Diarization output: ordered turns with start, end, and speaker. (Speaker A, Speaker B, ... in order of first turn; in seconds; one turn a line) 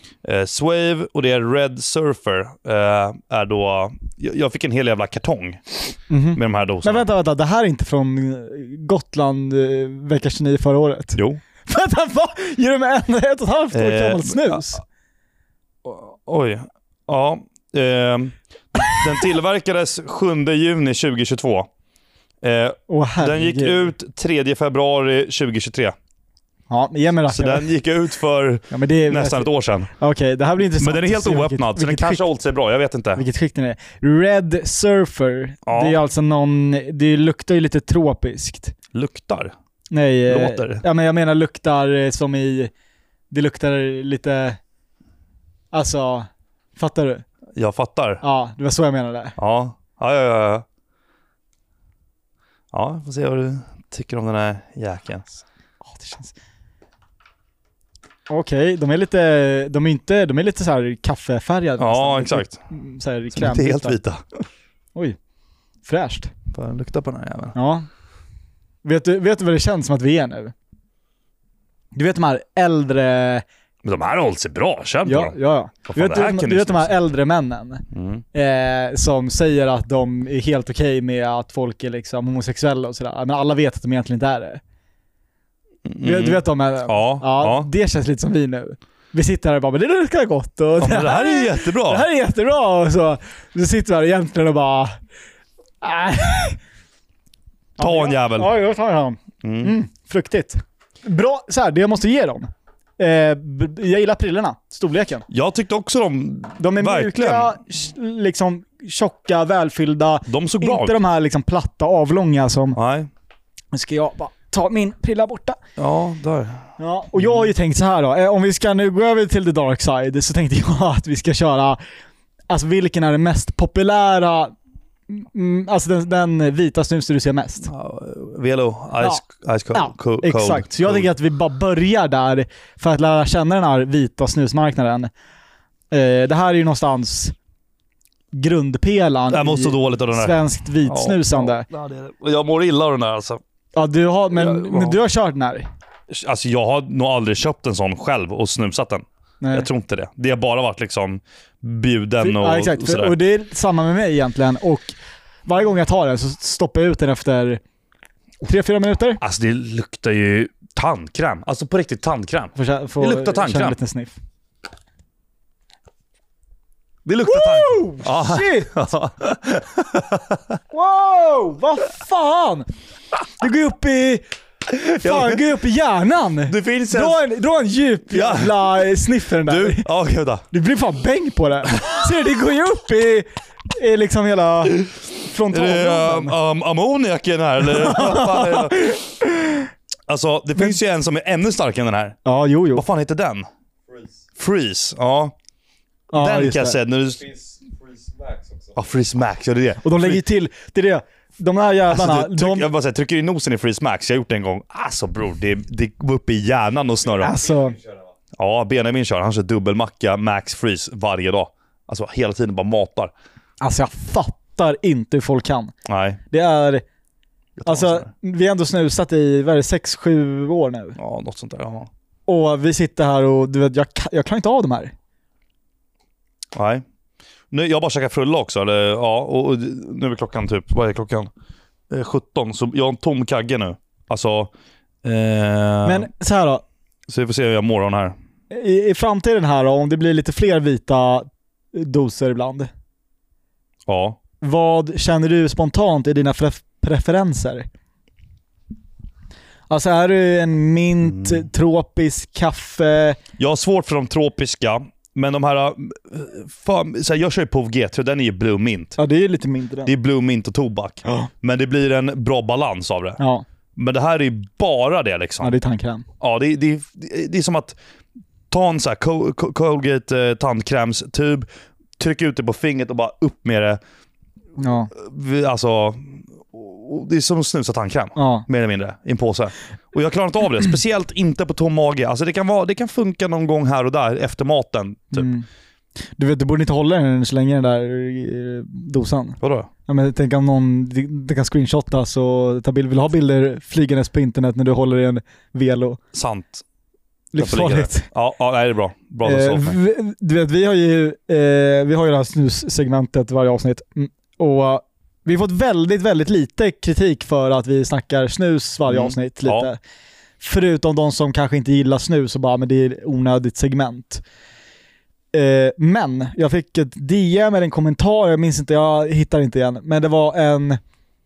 Speaker A: 0.2-5.6
Speaker B: 6.1-14.8
Speaker A: 6.3-7.1
Speaker A: 11.2-11.4
Speaker A: 13.7-14.7
Speaker A: 15.8-21.7
Speaker A: 22.4-25.9
Speaker B: 22.9-23.9
Speaker B: 26.7-27.7
Speaker A: 27.3-29.9
Speaker B: 28.7-32.2
Speaker A: 30.8-33.2
Speaker B: 33.1-38.7
Speaker A: 35.6-36.0
Speaker A: 38.9-39.5
Speaker B: 39.9-42.7
Speaker A: 40.2-40.8
Speaker B: 43.3-44.6
Speaker B: 45.7-47.2
Speaker A: 47.5-48.2
Speaker B: 48.2-49.4
Speaker A: 49.4-50.6
Speaker A: 52.7-55.4
Speaker B: 55.8-56.3
Speaker B: 58.3-64.0
Speaker A: 61.8-62.6
Speaker A: 63.3-64.4
Speaker B: 65.8-66.3
Speaker A: 66.5-67.5
Speaker B: 67.5-67.9
Speaker B: 68.8-70.5
Speaker B: 71.9-73.4
Speaker A: 73.8-75.3
Speaker B: 75.0-84.6
Speaker A: 75.9-76.9
Speaker A: 77.9-78.2
Speaker A: 85.8-87.7
Speaker B: 86.0-94.9
Speaker A: 90.8-92.0
Speaker B: 95.8-96.6
Speaker B: 97.8-105.2
Speaker A: 97.8-98.5
Speaker A: 99.4-99.7
Speaker A: 105.3-107.6
Speaker B: 106.6-112.8
Speaker A: 110.2-111.0
Speaker A: 112.8-113.1
Speaker B: 113.7-115.6
Speaker A: 115.8-116.6
Speaker B: 116.8-121.8
Speaker A: 117.2-117.5
Speaker B: 122.5-124.5
Speaker B: 125.1-127.7
Speaker A: 127.7-131.1
Speaker B: 129.7-135.1
Speaker B: 135.9-137.3
Speaker B: 138.3-141.7
Speaker A: 139.3-143.4
Speaker B: 143.7-145.7
Speaker A: 144.3-145.0
Speaker A: 146.1-153.1
Speaker B: 149.4-149.7
Speaker B: 152.2-157.6
Speaker B: 158.4-159.2
Speaker A: 159.2-163.8
Speaker B: 162.6-164.2
Speaker A: 167.0-170.6
Speaker B: 167.2-168.9
Speaker B: 170.7-172.7
Speaker B: 173.4-174.2
Speaker B: 174.8-179.8
Speaker A: 175.0-175.4
Speaker A: 176.5-177.2
Speaker A: 178.1-178.8
Speaker A: 179.4-180.4
Speaker B: 180.5-186.3
Speaker A: 185.5-189.0
Speaker B: 187.6-189.7
Speaker A: 190.1-192.2
Speaker B: 192.2-192.8
Speaker A: 192.7-195.3
Speaker B: 196.1-196.8
Speaker A: 196.1-200.2
Speaker B: 199.8-202.7
Speaker A: 201.9-207.4
Speaker B: 207.2-207.8
Speaker A: 208.3-213.1
Speaker B: 213.6-215.7
Speaker A: 215.8-216.2
Speaker B: 216.3-216.8
Speaker A: 217.6-218.1
Speaker B: 217.7-221.0
Speaker A: 221.0-221.9
Speaker B: 222.3-224.9
Speaker A: 226.5-226.8
Speaker A: 227.5-231.3
Speaker A: 231.9-234.5
Speaker A: 235.0-236.1
Speaker B: 235.8-236.6
Speaker A: 237.1-238.1
Speaker B: 238.5-242.7
Speaker A: 243.9-244.2
Speaker B: 244.4-247.7
Speaker B: 249.7-253.2
Speaker A: 251.1-251.4
Speaker A: 253.4-258.9
Speaker B: 259.0-259.9
Speaker A: 259.8-263.2
Speaker B: 263.2-263.4
Speaker A: 263.8-265.5
Speaker B: 265.4-266.0
Speaker A: 266.2-267.8
Speaker A: 268.5-271.4
Speaker A: 272.0-273.8
Speaker B: 274.6-274.9
Speaker A: 274.9-285.3
Speaker B: 278.2-278.4
Speaker B: 285.1-285.5
Speaker B: 286.1-296.0
Speaker A: 289.4-289.7
Speaker A: 296.1-296.6
Speaker B: 297.3-298.1
Speaker A: 297.4-299.8
Speaker B: 299.2-309.8
Speaker A: 308.9-309.7
Speaker B: 310.4-314.2
Speaker B: 315.3-320.8